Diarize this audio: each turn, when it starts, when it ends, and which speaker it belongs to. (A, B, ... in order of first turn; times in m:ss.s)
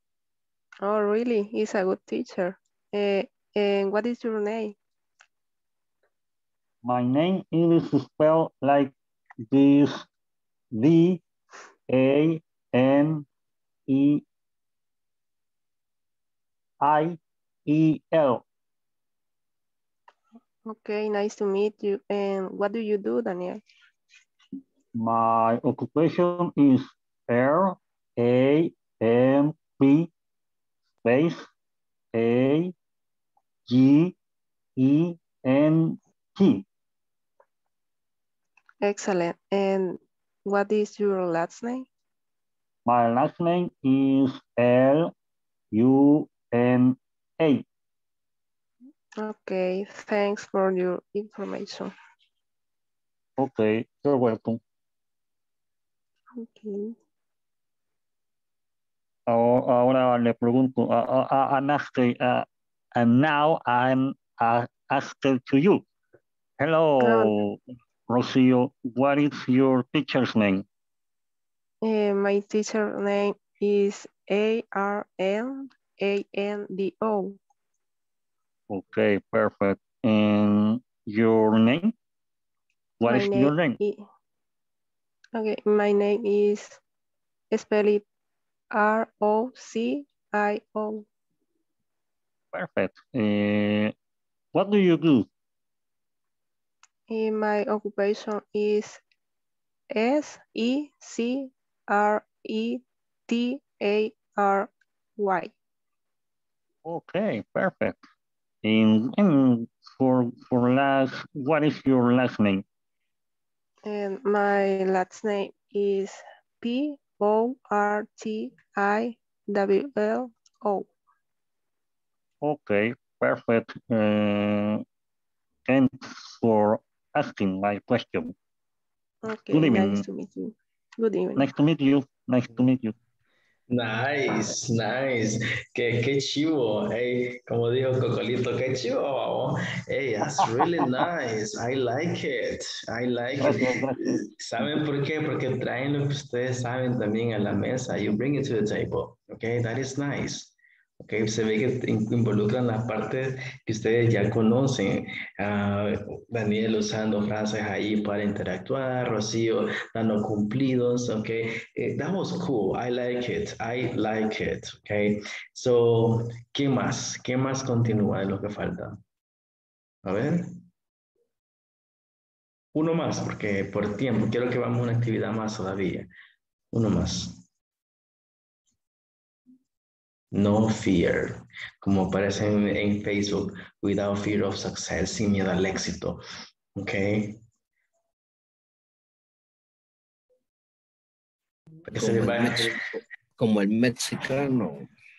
0:00.8-0:04.8 A
0:06.8-0:08.9 B
0:09.5-0:10.1 B
0:10.7-0:11.2 B
0:11.9-0:13.2 B
0:13.9-0:14.2 B
0:16.8-0:18.4 B
0:20.6-0:23.6 A
0:25.0-0:30.1 B
0:31.0-0:31.5 B
0:32.1-0:32.7 B
0:33.7-0:34.1 B
0:34.8-0:36.6 B
0:38.8-0:41.9 A
0:42.8-0:45.1 B
0:45.7-0:47.6 B
0:49.2-0:51.9 A
0:53.4-0:54.6 B
0:56.4-0:56.9 A
0:59.3-1:05.8 B
1:06.6-1:10.6 B
1:07.0-1:07.3 A
1:11.8-1:17.4 A
1:18.7-1:21.9 B
1:23.0-1:23.8 B
1:23.0-1:24.0 A
1:25.3-1:26.8 A
1:27.5-1:28.0 A
1:28.7-1:31.0 A
1:32.5-1:33.9 B
1:34.5-1:35.3 B
1:37.1-1:39.0 A
1:39.9-1:45.5 A
1:46.8-1:48.0 B
1:48.6-1:52.6 B
1:53.8-2:00.9 A
2:02.4-2:04.8 B
2:05.7-2:08.3 B
2:09.2-2:11.4 A
2:09.5-2:10.0 B
2:11.4-2:12.9 B
2:13.7-2:49.0 C
2:23.4-2:24.3 B
2:50.0-2:50.6 C
2:52.7-2:56.1 C
2:56.7-2:57.4 C
3:00.3-3:06.2 C
3:06.8-3:07.4 C
3:11.9-3:12.7 C
3:11.9-3:14.9 D